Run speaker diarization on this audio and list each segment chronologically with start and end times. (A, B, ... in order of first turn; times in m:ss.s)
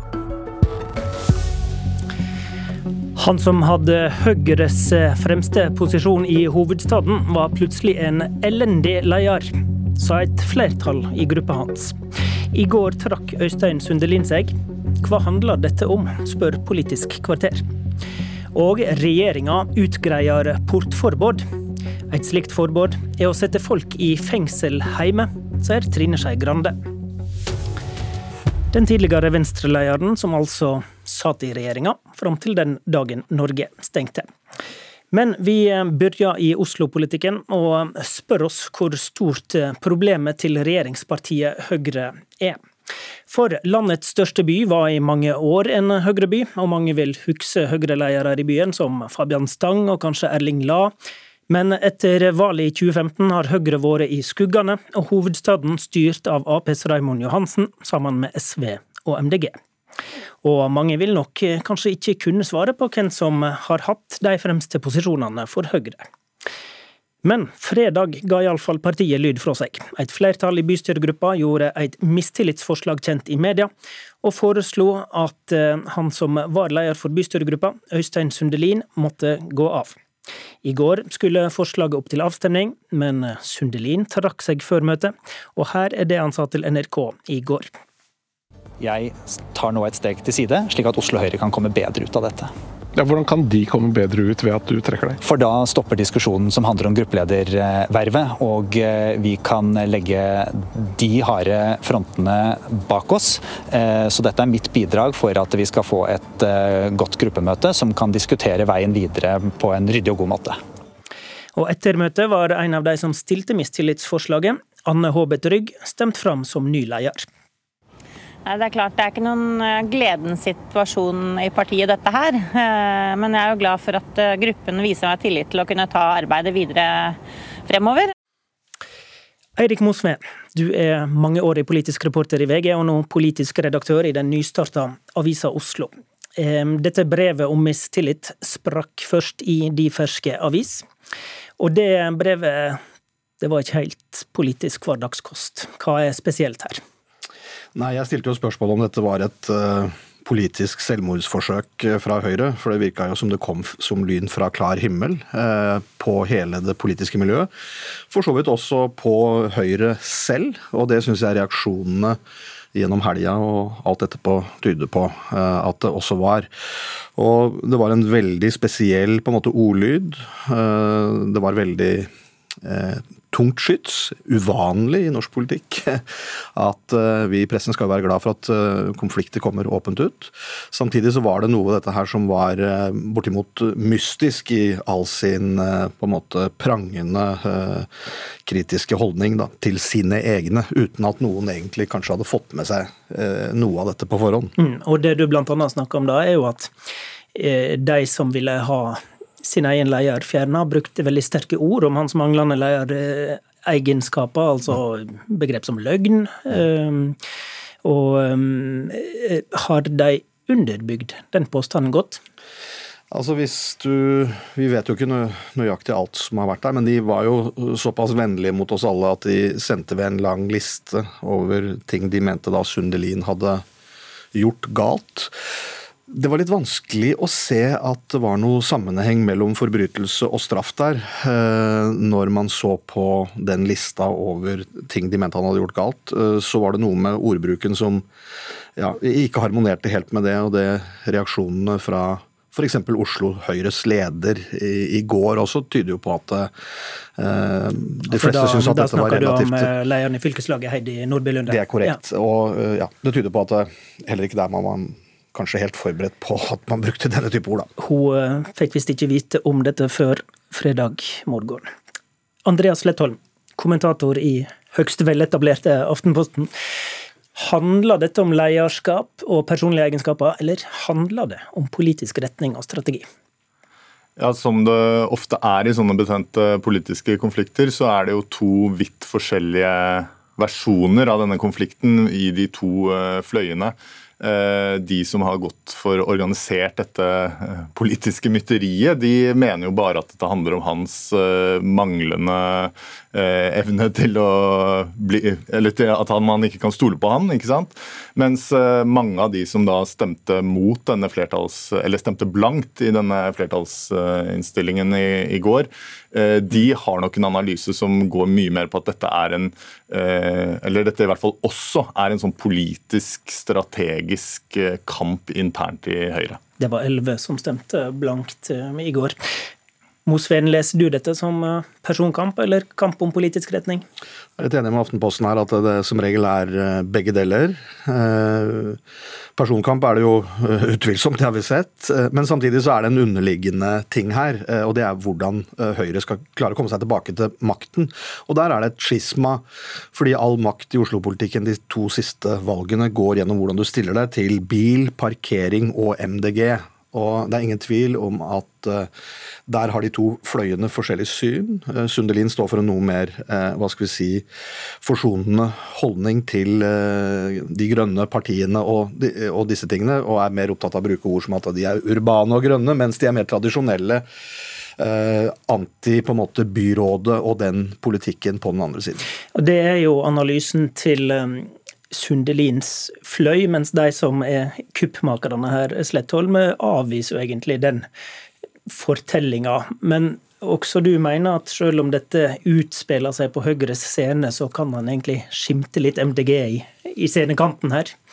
0:03.2-0:12.0 A
0:12.5-0:17.6 A
0:18.5-0:21.4 A
0:22.1-0:26.8 A
0:28.7-0:34.3 A
0:35.1-0:42.6 A
0:43.3-0:50.9 A
0:51.5-0:59.6 A
1:00.4-1:06.0 A
1:07.2-1:13.7 A
1:14.2-1:20.0 A
1:20.6-1:27.7 A
1:28.8-1:32.5 B
1:33.0-1:35.2 C
1:35.3-1:50.6 B
1:51.6-1:57.3 A
1:58.4-2:08.1 D
2:09.6-2:20.9 A
2:21.6-2:22.8 A
2:23.4-2:26.8 A
2:27.8-2:37.5 E
2:38.1-2:42.2 E
2:42.7-2:46.5 E
2:47.2-2:52.1 E
2:52.6-2:56.0 E
2:56.6-3:07.9 E
3:08.4-3:14.5 E
3:14.6-3:16.7 A
3:17.3-3:27.2 A
3:27.8-3:32.2 A
3:33.1-3:43.6 E
3:44.3-3:45.3 E
3:46.1-3:58.0 E
3:58.8-4:06.5 E
4:07.2-4:09.7 E
4:08.1-4:12.0 A
4:11.5-4:17.7 E
4:17.8-4:21.7 A
4:22.4-4:26.5 A
4:27.4-4:33.0 A
4:34.2-5:16.4 F
5:16.6-5:19.2 A
5:20.1-5:23.8 A
5:24.4-5:28.8 E
5:29.4-5:48.9 E
5:49.5-5:54.2 E
5:54.8-6:04.0 E
6:04.8-6:09.0 E
6:09.3-6:17.8 A
6:18.7-6:28.0 A